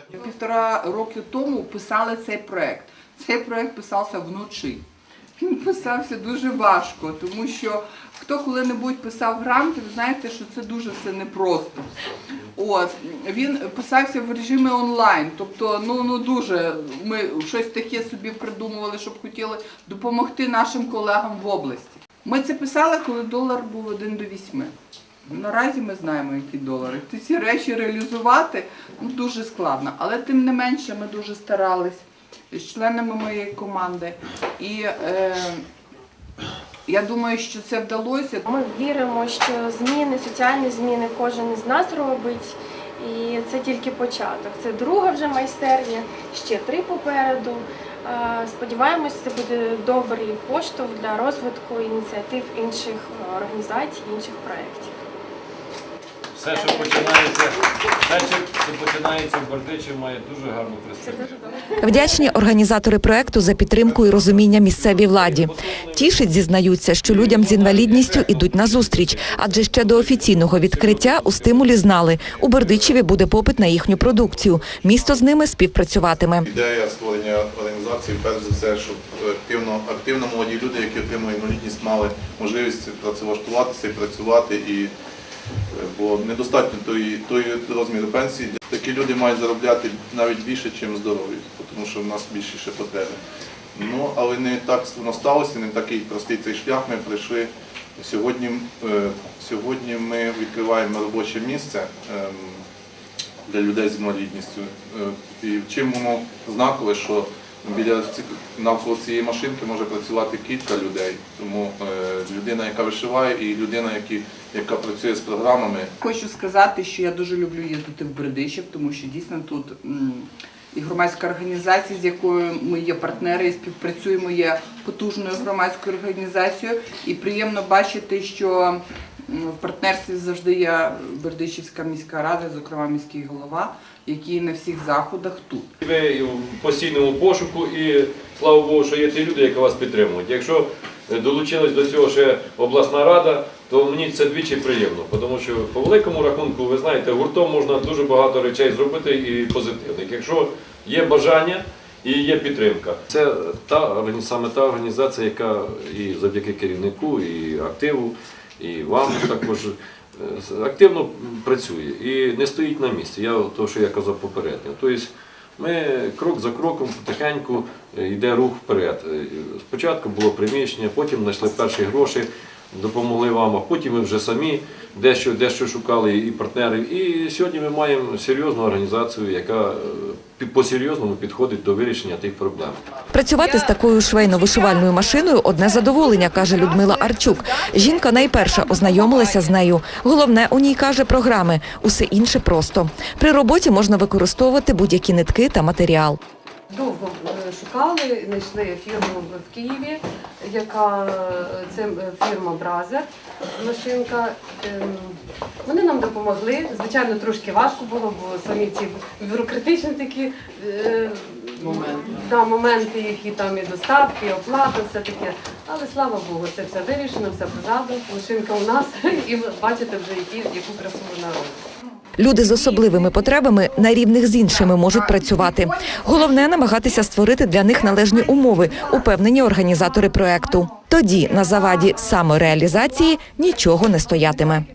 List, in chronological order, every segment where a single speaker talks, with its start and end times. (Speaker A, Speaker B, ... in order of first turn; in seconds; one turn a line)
Speaker A: 0.1-4.8
Speaker A: 5.4-11.9
Speaker A: 12.5-24.7
Speaker A: 25.2-35.6
Speaker A: 36.9-38.4
Speaker B: 38.5-54.9
Speaker C: 56.3-61.6
Speaker B: 56.5-57.3
Speaker B: 61.0-62.2
Speaker D: 61.8-76.5
Speaker C: 63.7-73.1
Speaker E: 74.6-74.8
Speaker E: 76.4-84.9
Speaker E: 85.7-93.2
Speaker E: 93.7-102.6
Speaker E: 103.5-115.9
Speaker A: 116.0-135.7
Speaker C: 135.8-182.8
Speaker D: 183.1-196.2
Speaker A: 185.9-189.5
Speaker F: 196.7-221.6
Speaker D: 222.2-234.7
Speaker A: 222.4-223.3
Speaker A: 224.5-226.5
Speaker A: 228.1-228.9